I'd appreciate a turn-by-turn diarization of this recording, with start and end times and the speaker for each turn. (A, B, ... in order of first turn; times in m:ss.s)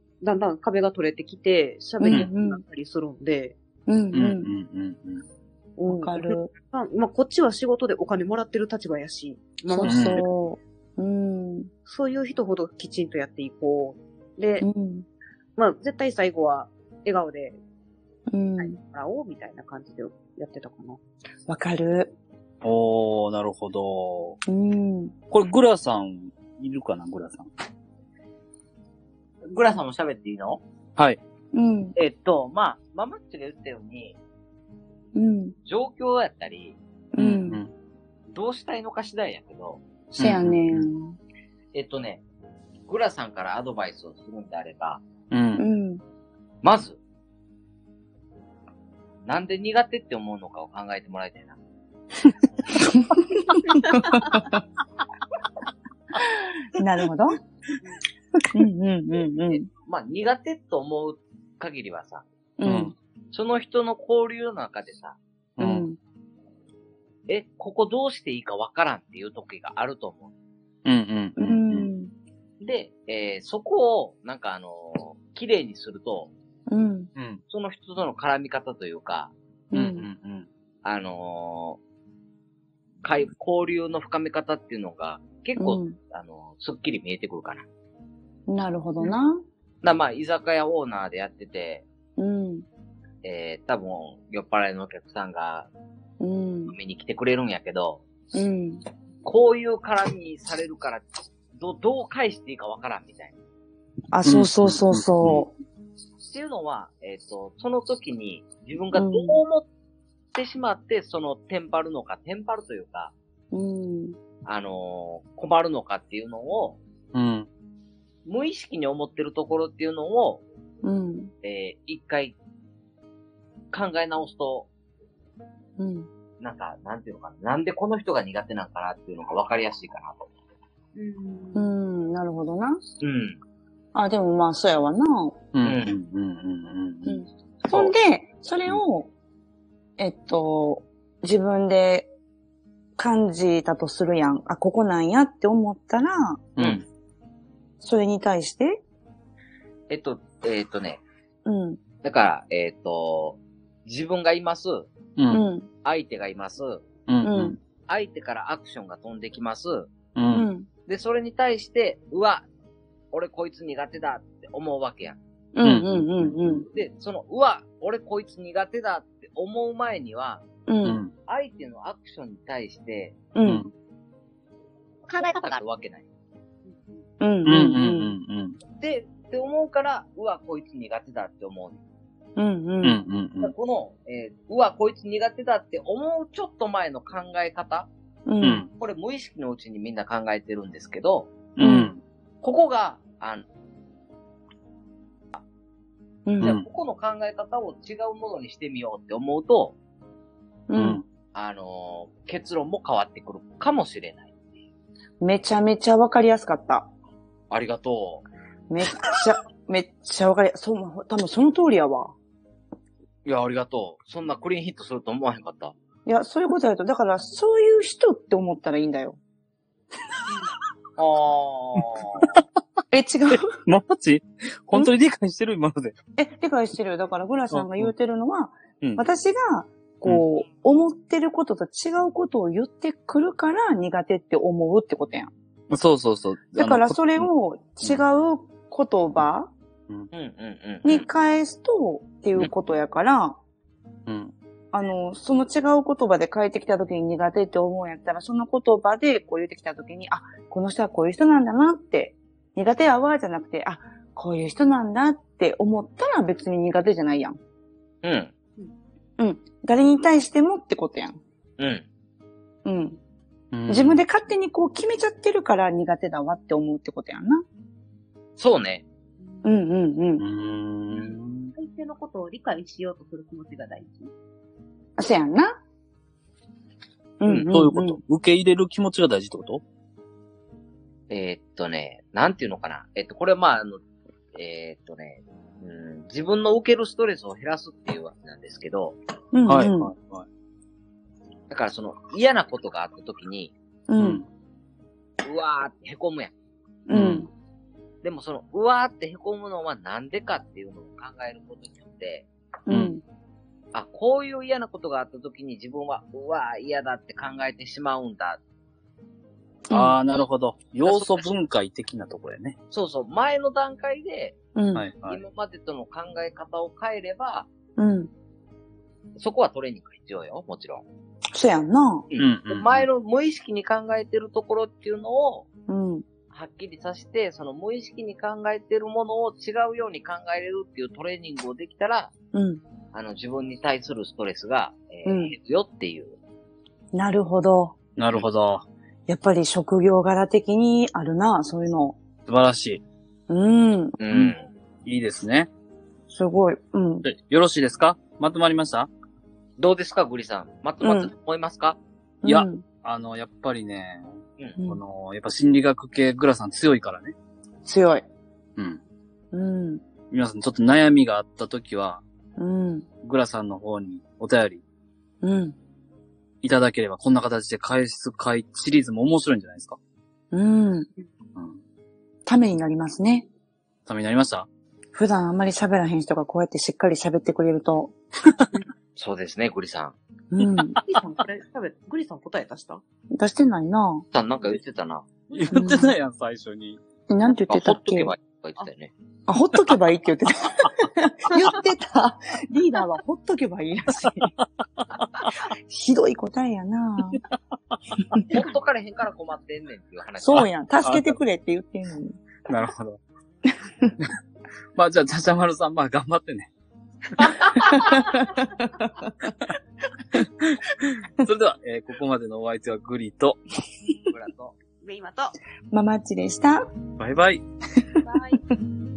0:00.2-0:03.6 A
0:02.0-0:02.6 B
0:03.9-0:04.5 B
0:04.1-0:05.2 C
0:05.8-0:10.2 A
0:05.9-0:06.5 B
0:09.7-0:11.7 B
0:09.8-0:10.2 C
0:11.9-0:14.7 A
0:14.6-0:15.1 B
0:15.6-0:17.6 A
0:18.3-0:18.8 B
0:18.6-0:21.0 A
0:21.5-0:22.1 B
0:22.6-0:24.4 C
0:24.5-0:25.2 B
0:25.3-0:27.5 C
0:29.5-0:30.6 D
0:31.5-0:32.0 B
0:32.0-0:34.2 D
0:35.2-0:35.6 B
0:35.7-0:36.8 D
0:37.1-0:37.6 B
0:37.2-0:37.7 C
0:38.3-0:39.8 D
0:40.1-0:41.2 B
0:40.2-0:40.9 C
0:41.7-0:42.2 D
0:42.9-0:45.0 D
0:45.3-0:45.6 C
0:45.6-0:46.0 B
0:46.6-0:47.0 D
0:49.3-0:51.6 D
0:52.9-0:54.6 B
0:56.2-0:57.4 B
0:58.5-0:59.7 B
0:59.8-1:02.2 D
1:02.6-1:02.9 B
1:02.6-1:02.9 C
1:03.3-1:05.2 D
1:05.6-1:06.0 B
1:05.6-1:05.9 C
1:07.3-1:10.3 D
1:10.9-1:11.9 C
1:11.4-1:12.1 B
1:12.6-1:16.3 D
1:16.7-1:17.1 B
1:17.2-1:17.4 C
1:17.5-1:19.3 D
1:19.7-1:20.1 B
1:19.7-1:20.5 C
1:20.8-1:21.8 D
1:23.0-1:27.6 D
1:25.6-1:26.0 B
1:28.5-1:29.4 B
1:29.8-1:31.9 D
1:32.2-1:32.7 B
1:33.2-1:35.7 D
1:36.2-1:36.7 B
1:36.7-1:38.0 D
1:38.3-1:38.8 B
1:39.2-1:43.4 D
1:44.1-1:45.5 B
1:44.2-1:45.4 C
1:46.3-1:49.7 D
1:48.9-1:49.4 B
1:50.3-1:53.1 D
1:53.5-1:54.2 B
1:54.5-1:56.8 D
1:57.1-1:57.5 C
1:58.3-2:00.4 D
2:00.8-2:01.3 B
2:01.4-2:02.4 D
2:03.7-2:04.7 D
2:05.8-2:06.1 B
2:06.4-2:10.3 D
2:11.0-2:11.6 A
2:11.6-2:12.8 B
2:13.0-2:13.4 D
2:13.9-2:15.4 B
2:15.5-2:17.9 C
2:15.6-2:16.0 D
2:17.1-2:19.1 B
2:20.0-2:22.1 B
2:23.0-2:26.4 B
2:26.6-2:26.8 C
2:26.6-2:26.8 D
2:27.8-2:28.8 B
2:29.9-2:31.0 D
2:31.5-2:31.8 B
2:32.0-2:34.9 D
2:35.2-2:35.4 C
2:35.3-2:35.7 B
2:35.8-2:36.8 D
2:37.1-2:37.6 C
2:37.2-2:37.6 B
2:37.9-2:39.9 D
2:40.2-2:40.5 C
2:40.3-2:40.7 B
2:40.9-2:42.4 D
2:43.1-2:45.2 D
2:45.6-2:46.7 B
2:45.6-2:46.6 C
2:46.7-2:50.4 D
2:50.7-2:51.0 B
2:50.8-2:51.1 C
2:51.2-2:53.2 D
2:53.4-2:53.7 B
2:53.5-2:53.7 C
2:55.1-2:56.1 D
2:56.7-2:57.0 A
2:57.2-2:58.2 B
2:57.4-2:58.6 C
2:58.8-3:01.8 D
3:02.4-3:03.0 B
3:02.8-3:03.5 C
3:03.4-3:07.9 D
3:08.3-3:08.7 B
3:08.4-3:08.7 C
3:08.7-3:11.3 D
3:11.6-3:12.0 C
3:11.6-3:11.9 B
3:12.4-3:13.4 D
3:16.3-3:16.6 B
3:16.4-3:16.6 C
3:16.4-3:19.8 D
3:20.7-3:21.0 B
3:20.8-3:21.0 C
3:21.3-3:24.3 D
3:25.2-3:26.9 B
3:27.5-3:28.3 D
3:28.7-3:32.1 B
3:33.2-3:35.7 D
3:36.1-3:39.2 B
3:41.0-3:42.3 D
3:42.9-3:43.5 B
3:43.3-3:46.0 C
3:46.2-3:55.3 B
3:47.5-3:47.9 C
3:55.7-3:57.3 C
3:56.6-3:59.5 B
4:00.1-4:01.1 D
4:00.8-4:03.4 B
4:04.1-4:04.3 C
4:04.7-4:17.4 B
4:18.0-4:18.3 D
4:19.2-4:21.2 B
4:21.6-4:21.9 D
4:22.6-4:23.0 B
4:23.5-4:24.0 C
4:23.7-4:27.4 B
4:28.4-4:28.8 D
4:29.3-4:29.5 A
4:29.4-4:30.2 B
4:30.2-4:31.5 C
4:30.9-4:34.1 A
4:35.0-4:35.6 B
4:37.2-4:38.0 B
4:37.4-4:39.6 C
4:41.1-4:43.8 D
4:44.4-4:49.0 D
4:49.3-4:49.9 B
4:49.5-4:50.3 C
4:51.5-4:53.5 D
4:53.9-4:54.2 B
4:54.0-4:54.2 C
4:55.2-4:56.3 D
4:56.9-4:57.3 B
4:56.9-4:57.3 C
4:58.0-5:02.3 D
5:02.7-5:03.0 B
5:02.7-5:03.0 C
5:03.7-5:08.4 D
5:09.7-5:10.0 B
5:09.7-5:12.6 C
5:10.8-5:11.4 D
5:12.7-5:14.4 D
5:14.6-5:14.8 B
5:14.8-5:15.2 C
5:15.0-5:17.5 D
5:17.8-5:18.1 B
5:19.2-5:20.8 D
5:21.3-5:22.1 B
5:22.1-5:25.5 D
5:22.2-5:22.9 C
5:25.7-5:26.0 B
5:26.3-5:32.1 D
5:32.3-5:32.6 B
5:32.9-5:36.2 D
5:35.0-5:35.3 B
5:36.9-5:37.8 B
5:38.0-5:38.6 C
5:39.1-5:42.0 B
5:42.3-5:42.8 C
5:43.3-5:44.3 B
5:44.0-5:44.5 D
5:44.8-5:45.5 C
5:46.1-5:47.1 B
5:47.0-5:48.9 C
5:49.6-5:51.8 D
5:50.8-5:51.1 B
5:52.2-5:52.6 B
5:52.2-5:57.2 C
5:57.6-5:58.0 B
5:58.6-5:58.8 C
5:59.3-5:59.8 B
6:00.1-6:02.0 C
6:02.4-6:02.9 B
6:03.0-6:04.6 C
6:05.2-6:05.6 B
6:06.4-6:09.8 C
6:10.3-6:10.9 B
6:11.4-6:11.6 C
6:12.3-6:13.3 B
6:13.9-6:14.5 C
6:14.9-6:17.9 B
6:19.0-6:20.0 D
6:20.3-6:20.8 B
6:20.8-6:22.8 A
6:23.1-6:24.0 B
6:24.1-6:25.1 D
6:25.3-6:26.8 C
6:25.5-6:25.9 B
6:27.1-6:28.1 B
6:27.5-6:28.9 D
6:29.3-6:34.3 B
6:35.5-6:37.2 B
6:38.3-6:40.5 D
6:40.2-6:42.2 B
6:40.8-6:41.2 C
6:42.5-6:43.0 C
6:44.8-6:46.5 C
6:47.2-6:48.0 C
6:47.5-6:49.3 B
6:50.1-6:51.0 B
6:51.2-6:53.4 C
6:54.1-6:54.5 D
6:54.8-6:55.4 A
6:55.7-6:56.6 B
6:57.0-6:57.4 C
6:58.0-6:58.4 A